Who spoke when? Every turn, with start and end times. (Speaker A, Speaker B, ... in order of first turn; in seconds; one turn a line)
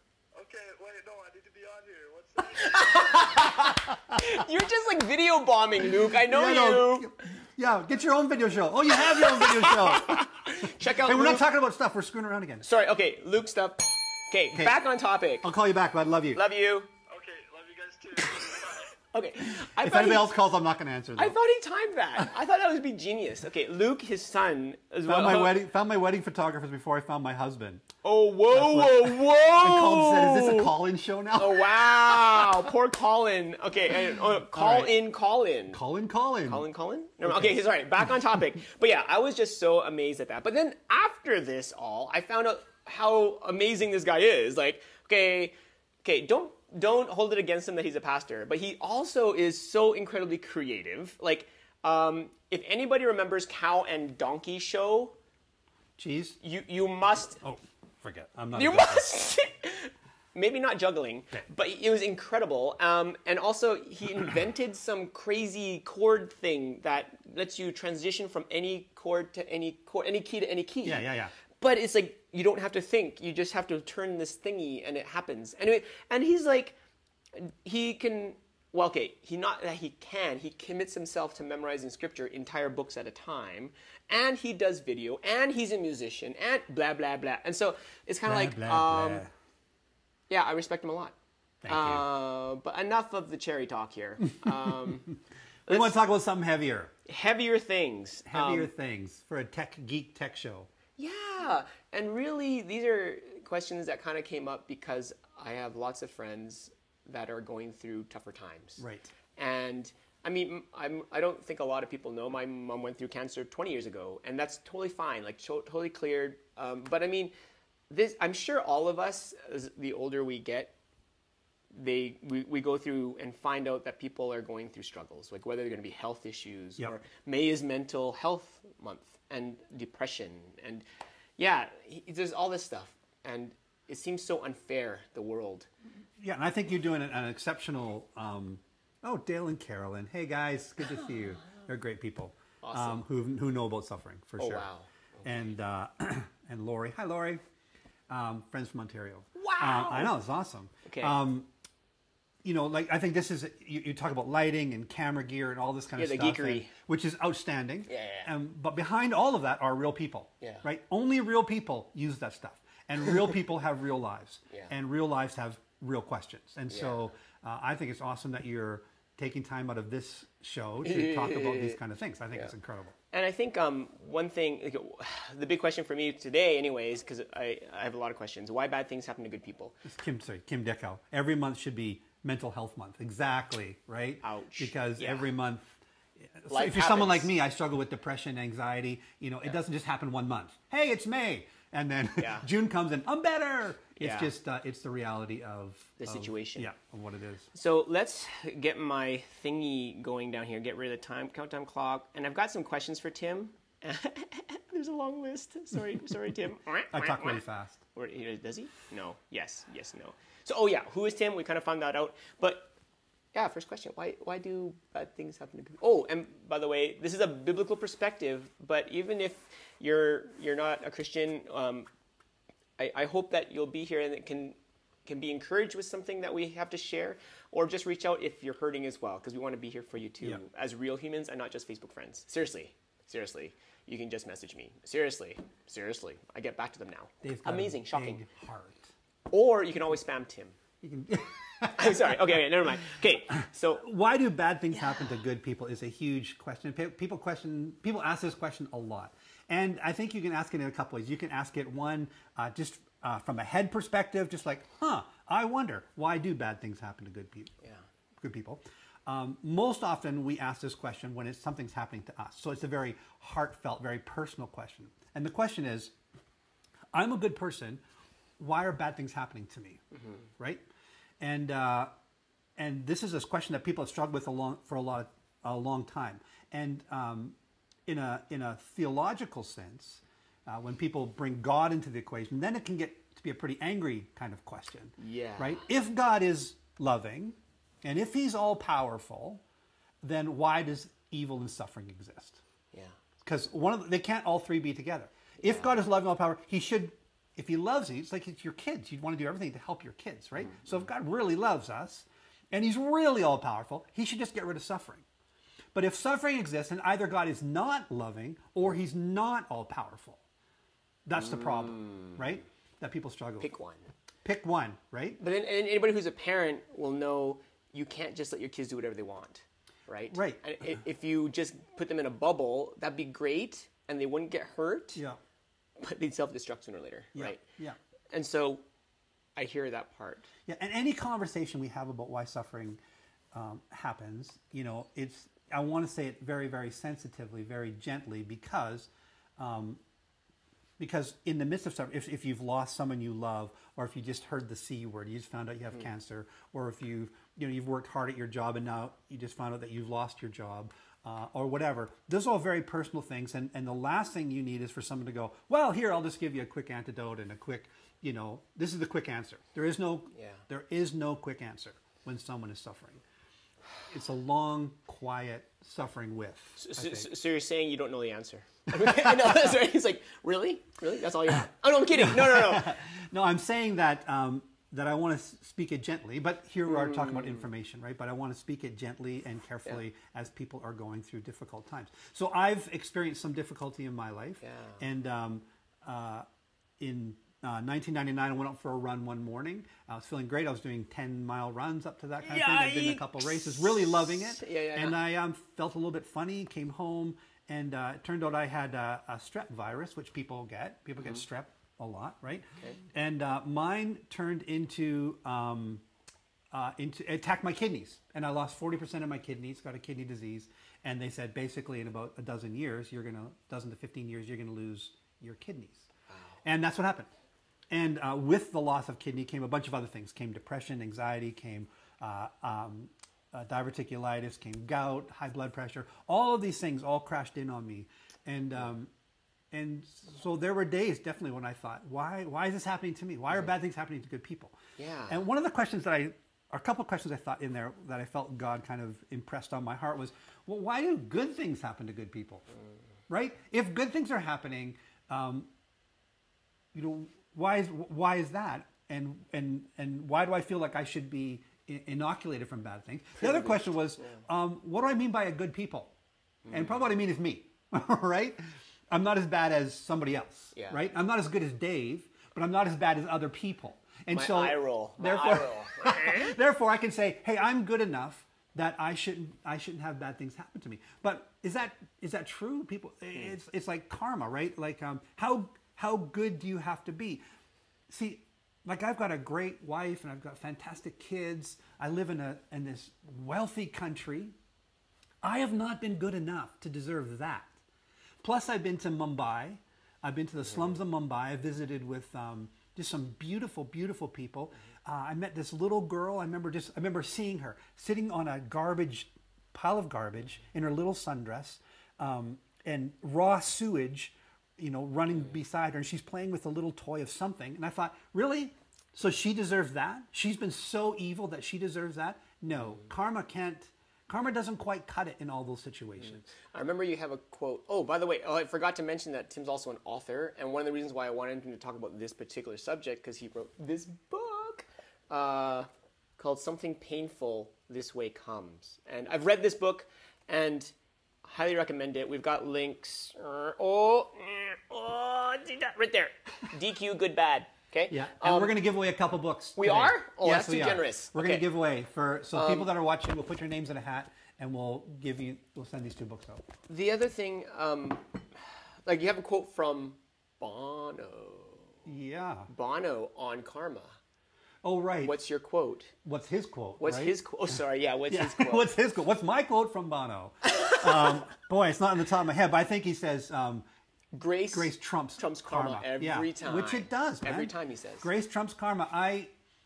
Speaker A: 0.3-3.7
Speaker B: 2.5-7.1
Speaker C: 6.1-12.7
Speaker B: 9.0-11.4
Speaker B: 12.6-15.5
Speaker C: 14.5-14.8
Speaker C: 15.4-16.4
Speaker B: 16.3-16.9
Speaker A: 17.1-18.9
Speaker B: 18.4-20.3
Speaker C: 19.6-21.4
Speaker B: 21.2-25.6
Speaker C: 25.1-27.9
Speaker B: 28.0-30.7
Speaker C: 28.5-32.5
Speaker B: 31.4-35.8
Speaker C: 34.1-34.9
Speaker C: 35.7-36.6
Speaker B: 36.5-55.1
Speaker C: 37.2-38.1
Speaker C: 56.0-56.4
Speaker B: 56.4-57.4
Speaker C: 57.4-59.1
Speaker B: 58.5-76.8
Speaker C: 70.8-71.3
Speaker B: 77.3-89.2
Speaker C: 88.2-89.3
Speaker B: 90.3-91.1
Speaker C: 91.6-92.0
Speaker B: 91.7-95.1
Speaker C: 94.4-95.1
Speaker B: 95.7-96.0
Speaker C: 95.7-96.9
Speaker B: 97.0-98.7
Speaker C: 98.3-100.7
Speaker B: 101.0-108.8
Speaker C: 108.8-109.1
Speaker B: 109.3-117.3
Speaker B: 117.9-120.7
Speaker B: 121.7-130.8
Speaker B: 131.4-135.7
Speaker C: 136.2-144.7
Speaker B: 142.6-143.0
Speaker B: 144.4-145.2
Speaker C: 145.2-147.4
Speaker C: 148.1-151.5
Speaker B: 149.3-150.2
Speaker B: 150.8-151.2
Speaker C: 152.4-172.9
Speaker B: 156.0-156.7
Speaker B: 157.9-158.3
Speaker B: 166.7-167.1
Speaker B: 170.8-171.8
Speaker B: 173.1-179.8
Speaker C: 179.8-185.7
Speaker B: 184.2-185.3
Speaker C: 186.2-197.5
Speaker B: 186.5-187.3
Speaker B: 192.2-192.5
Speaker B: 194.0-194.3
Speaker B: 196.0-196.7
Speaker B: 197.5-212.7
Speaker C: 206.9-207.8
Speaker B: 213.3-221.9
Speaker B: 222.8-238.2
Speaker C: 237.2-238.9
Speaker B: 239.3-240.6
Speaker C: 240.8-242.4
Speaker B: 241.7-243.8
Speaker C: 243.8-257.5
Speaker C: 258.1-265.9
Speaker C: 266.9-267.8
Speaker C: 268.4-269.8
Speaker C: 270.4-270.6
Speaker C: 271.2-271.9
Speaker C: 272.6-289.4
Speaker B: 285.0-285.7
Speaker C: 290.0-292.4
Speaker C: 293.2-305.0
Speaker B: 295.4-295.8
Speaker B: 300.4-300.7
Speaker C: 305.7-310.2
Speaker C: 311.1-313.5
Speaker B: 313.4-313.9
Speaker C: 314.2-315.2
Speaker B: 315.2-325.0
Speaker C: 320.1-320.4
Speaker B: 325.8-327.4
Speaker C: 327.1-327.8
Speaker B: 328.1-328.6
Speaker B: 329.4-330.3
Speaker C: 330.5-332.8
Speaker C: 333.3-339.8
Speaker C: 340.8-363.0
Speaker B: 360.1-360.4
Speaker C: 363.9-367.1
Speaker B: 366.6-372.8
Speaker C: 368.7-369.5
Speaker C: 371.9-386.3
Speaker B: 376.7-377.5
Speaker B: 384.4-384.8
Speaker C: 386.8-405.8
Speaker B: 392.2-395.0
Speaker C: 406.5-415.9
Speaker B: 416.1-416.4
Speaker C: 416.4-417.1
Speaker C: 417.7-428.9
Speaker C: 429.5-434.6
Speaker B: 434.8-435.2
Speaker C: 435.1-442.5
Speaker C: 443.1-445.5
Speaker C: 446.7-455.9
Speaker B: 453.2-454.2
Speaker B: 456.4-456.8
Speaker C: 456.5-477.2
Speaker B: 460.5-460.8
Speaker B: 464.1-466.3
Speaker C: 477.9-484.3
Speaker C: 485.2-487.6
Speaker C: 488.2-516.2
Speaker B: 516.3-530.7
Speaker B: 531.2-538.5
Speaker C: 537.9-546.5
Speaker B: 539.6-541.4
Speaker B: 542.3-542.7
Speaker B: 546.7-551.8
Speaker C: 551.9-552.5
Speaker B: 552.5-554.0
Speaker C: 554.6-555.1
Speaker B: 555.0-555.9
Speaker C: 556.0-557.2
Speaker B: 556.8-558.7
Speaker C: 558.1-563.6
Speaker B: 564.1-568.1
Speaker C: 564.5-569.3